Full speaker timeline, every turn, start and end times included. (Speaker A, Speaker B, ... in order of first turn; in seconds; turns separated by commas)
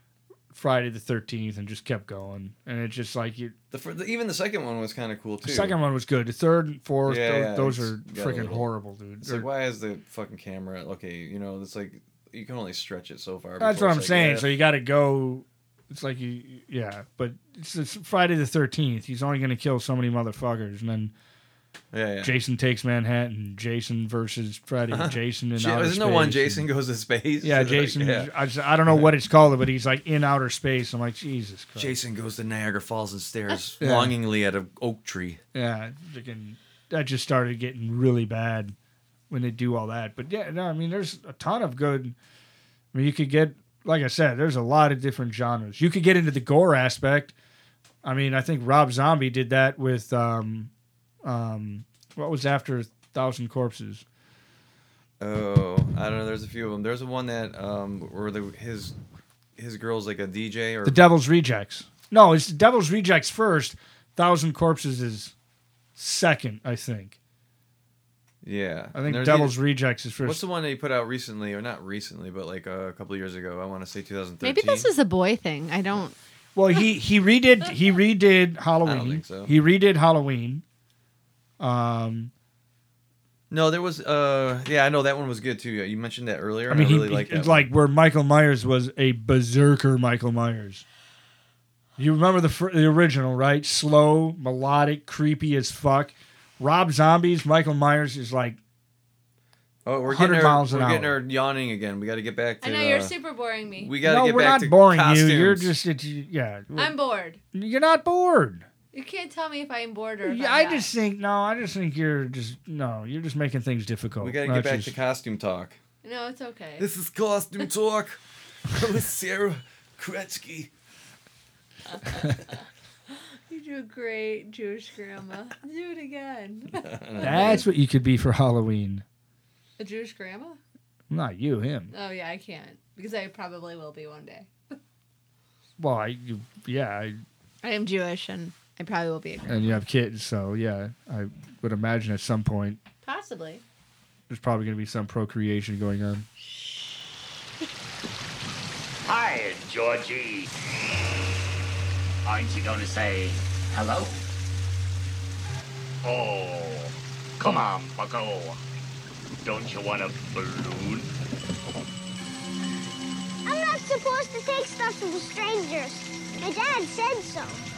Speaker A: 0.5-3.5, Speaker B: 3.7-5.8, Speaker A: 5.4-9.4, Speaker B: 7.0-8.7, Speaker B: 9.2-14.4, Speaker A: 13.6-21.1, Speaker B: 21.9-22.3, Speaker A: 22.2-26.7, Speaker B: 24.9-28.3, Speaker A: 27.4-31.9, Speaker B: 31.8-35.4, Speaker A: 33.8-34.1, Speaker A: 35.5-38.7, Speaker A: 39.3-42.1, Speaker A: 42.9-47.3, Speaker A: 48.0-50.7, Speaker A: 51.2-54.0, Speaker B: 55.2-58.9, Speaker B: 59.6-61.0, Speaker A: 60.8-65.3, Speaker A: 66.0-67.2, Speaker B: 68.4-69.5, Speaker A: 68.9-70.4, Speaker B: 70.2-74.9, Speaker C: 74.4-76.2, Speaker A: 76.5-80.6, Speaker B: 78.8-79.5, Speaker A: 81.6-82.3, Speaker B: 83.5-87.7, Speaker A: 86.7-90.8, Speaker A: 92.0-98.6, Speaker B: 99.8-103.1, Speaker A: 100.1-101.2, Speaker C: 102.6-103.9, Speaker B: 103.8-105.7, Speaker A: 104.0-106.9, Speaker C: 106.8-107.4, Speaker A: 107.5-108.6, Speaker C: 108.9-110.9, Speaker A: 110.2-114.9, Speaker B: 114.2-115.8, Speaker C: 116.0-116.9, Speaker B: 116.8-120.7, Speaker C: 121.9-127.6, Speaker B: 126.7-127.6, Speaker A: 127.2-129.0, Speaker C: 129.8-130.6, Speaker A: 131.1-131.9, Speaker C: 131.9-134.5, Speaker A: 135.8-137.2, Speaker C: 137.6-139.5, Speaker A: 139.4-142.8, Speaker C: 143.0-143.6, Speaker A: 144.3-146.2, Speaker D: 149.0-150.5, Speaker D: 152.2-154.2, Speaker D: 156.0-158.6, Speaker D: 159.4-161.1, Speaker E: 163.4-167.6